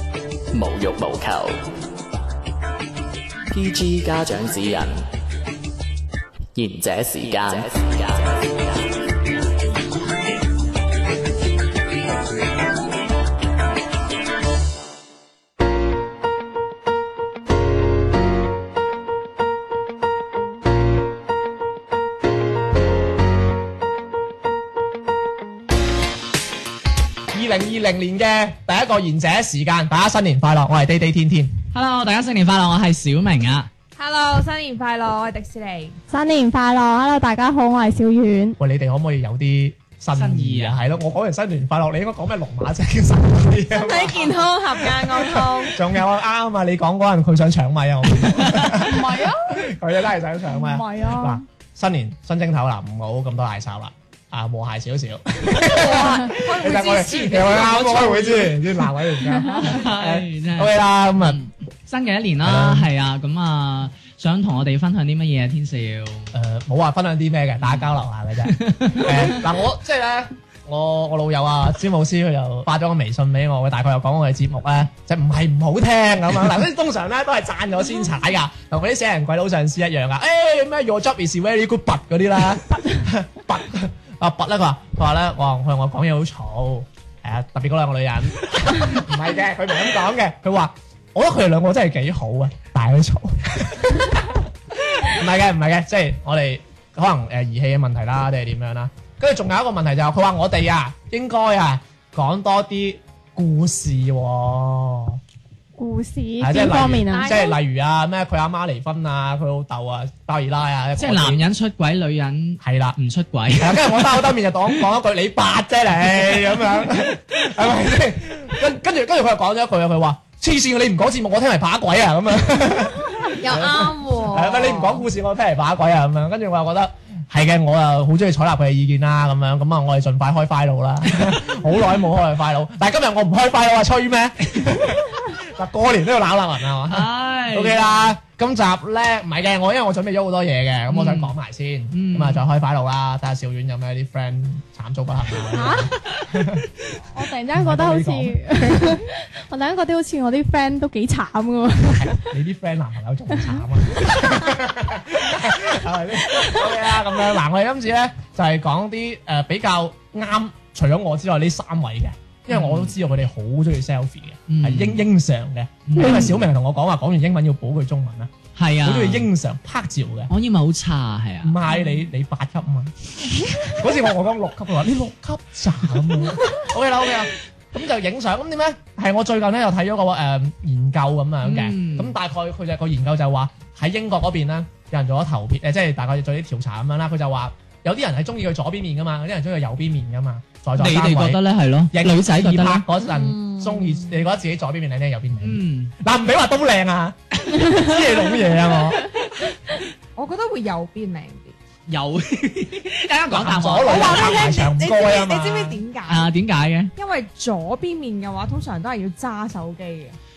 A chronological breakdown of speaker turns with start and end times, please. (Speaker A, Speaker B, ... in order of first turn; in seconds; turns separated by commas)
Speaker A: 0.5-1.6, Speaker A: 3.5-5.0, Speaker A: 6.5-9.1, Speaker B: 27.3-31.6, Speaker C: 31.7-33.7, Speaker D: 34.0-36.0, Speaker E: 36.1-38.6, Speaker B: 38.6-61.4, Speaker C: 40.1-40.8, Speaker D: 43.7-45.8, Speaker C: 48.2-49.1, Speaker D: 48.8-49.5, Speaker D: 50.5-51.4, Speaker D: 55.6-58.7, Speaker C: 59.5-66.3, Speaker B: 62.4-62.9, Speaker B: 66.3-105.2, Speaker C: 67.6-67.9, Speaker C: 68.5-69.4, Speaker E: 105.8-107.4, Speaker B: 106.4-111.4, Speaker D: 107.1-107.6, Speaker C: 111.0-114.8, Speaker B: 112.6-113.0, Speaker B: 113.5-146.7, Speaker D: 123.3-125.1, Speaker C: 136.9-138.2, Speaker C: 140.9-141.3, Speaker C: 141.9-142.4, Speaker E: 145.5-145.9, Speaker C: 146.0-146.3, Speaker E: 147.1-152.3, Speaker B: 147.5-149.0, Speaker B: 151.9-170.3, Speaker E: 156.3-156.6, Speaker C: 162.5-162.9, Speaker C: 164.5-165.1, Speaker C: 165.9-166.5, Speaker E: 166.0-166.3, Speaker C: 168.6-169.3, Speaker C: 170.3-171.6, Speaker B: 171.4-191.4, Speaker C: 181.4-182.1, Speaker C: 190.8-192.9, Speaker B: 191.9-199.0, Speaker D: 193.0-194.2, Speaker C: 195.4-195.9, Speaker D: 200.2-201.6, Speaker C: 201.9-204.4, Speaker B: 203.3-205.8, Speaker D: 203.8-206.3, Speaker C: 206.1-206.9, Speaker D: 206.9-210.2